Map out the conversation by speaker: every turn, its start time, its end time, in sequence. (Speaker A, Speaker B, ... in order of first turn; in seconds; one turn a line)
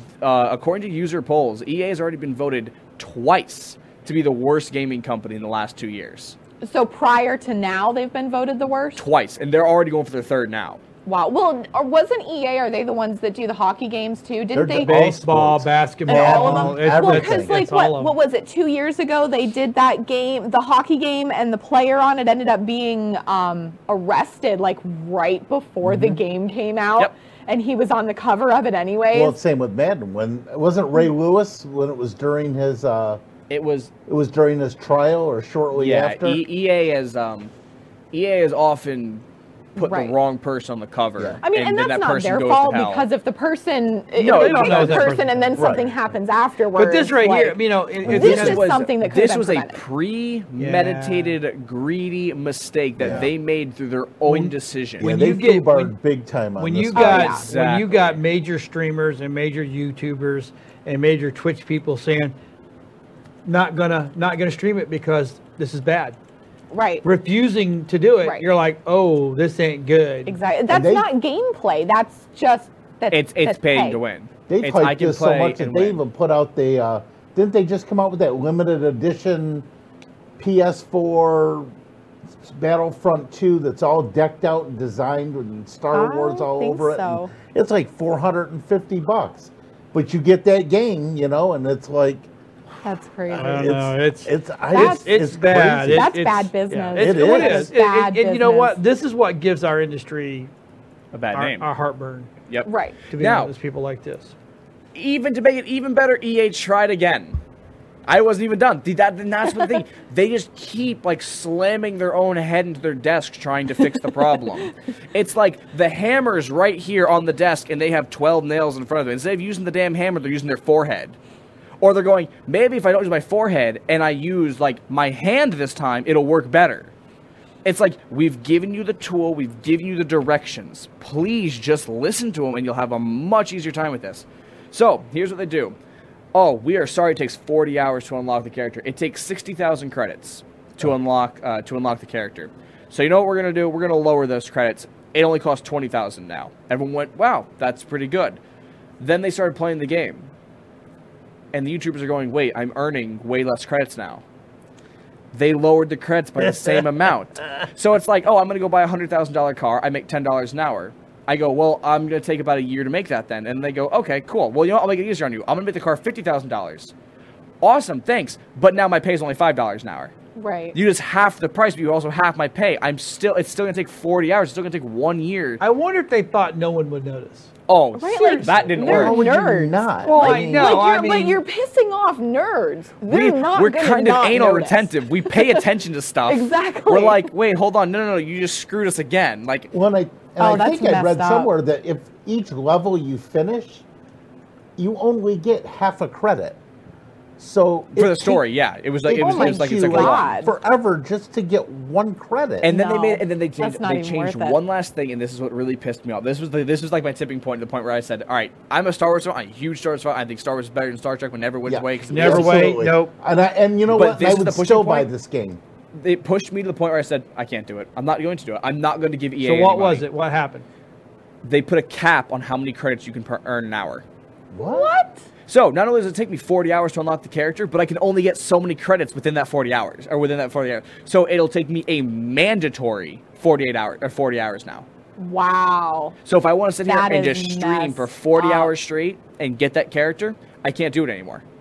Speaker A: 0.2-6.4
Speaker B: 6.6-9.0
Speaker A: 9.0-10.8
Speaker B: 11.1-14.9
Speaker C: 14.5-17.6
Speaker D: 14.8-18.2
Speaker B: 16.1-29.4
Speaker D: 25.9-26.2
Speaker C: 29.1-33.2
Speaker A: 33.5-33.9
Speaker C: 34.1-36.4
Speaker A: 35.7-37.5
Speaker A: 38.1-39.2
Speaker B: 39.8-40.2
Speaker A: 39.8-43.0
Speaker B: 41.4-49.8
Speaker D: 44.2-45.8
Speaker A: 44.2-45.2
Speaker C: 45.6-45.9
Speaker D: 46.7-48.6
Speaker C: 48.0-48.6
Speaker A: 48.1-55.1
Speaker D: 50.6-51.4
Speaker C: 53.0-53.3
Speaker D: 54.3-56.0
Speaker C: 55.0-57.4
Speaker D: 56.6-62.4
Speaker B: 56.9-57.5
Speaker A: 57.5-58.2
Speaker D: 63.5-66.2
Speaker B: 66.7-67.0
Speaker D: 67.0-70.4
Speaker B: 70.3-74.0
Speaker C: 70.7-71.1
Speaker A: 73.1-76.0
Speaker C: 74.5-79.7
Speaker C: 80.4-81.7
Speaker C: 82.3-92.3
Speaker B: 85.9-87.3
Speaker B: 92.8-93.8
Speaker C: 93.3-96.1
Speaker D: 93.3-100.5
Speaker B: 94.7-95.2
Speaker B: 95.9-98.8
Speaker C: 97.0-97.7
Speaker A: 101.1-101.7
Speaker D: 101.3-102.3
Speaker A: 102.5-103.5
Speaker B: 102.7-103.0
Speaker D: 103.1-104.3
Speaker A: 104.9-107.4
Speaker A: 108.1-121.2
Speaker A: 121.8-126.9
Speaker A: 127.6-135.8
Speaker A: 136.3-148.4
Speaker A: 149.0-150.3
Speaker A: 151.5-154.2
Speaker A: 155.3-166.9
Speaker A: 167.6-170.1
Speaker B: 170.4-170.8
Speaker A: 170.7-175.6
Speaker D: 175.6-177.5
Speaker A: 177.7-179.2
Speaker B: 178.0-185.7
Speaker D: 178.1-178.7
Speaker C: 178.7-180.9
Speaker D: 180.0-181.4
Speaker A: 183.1-189.7
Speaker B: 186.3-187.3
Speaker C: 189.7-193.8
Speaker B: 190.4-191.5
Speaker C: 194.8-196.6
Speaker C: 197.4-198.4
Speaker A: 198.0-200.4
Speaker C: 199.1-202.7
Speaker B: 199.2-200.6
Speaker A: 202.6-212.7
Speaker B: 202.7-204.6
Speaker C: 211.7-215.6
Speaker D: 212.1-213.1
Speaker A: 213.9-215.1
Speaker A: 215.9-220.1
Speaker D: 219.4-220.7
Speaker A: 221.4-224.1
Speaker C: 224.5-224.9
Speaker B: 224.6-225.2
Speaker A: 225.5-234.9
Speaker B: 235.2-236.2
Speaker A: 236.2-241.4
Speaker B: 236.9-238.7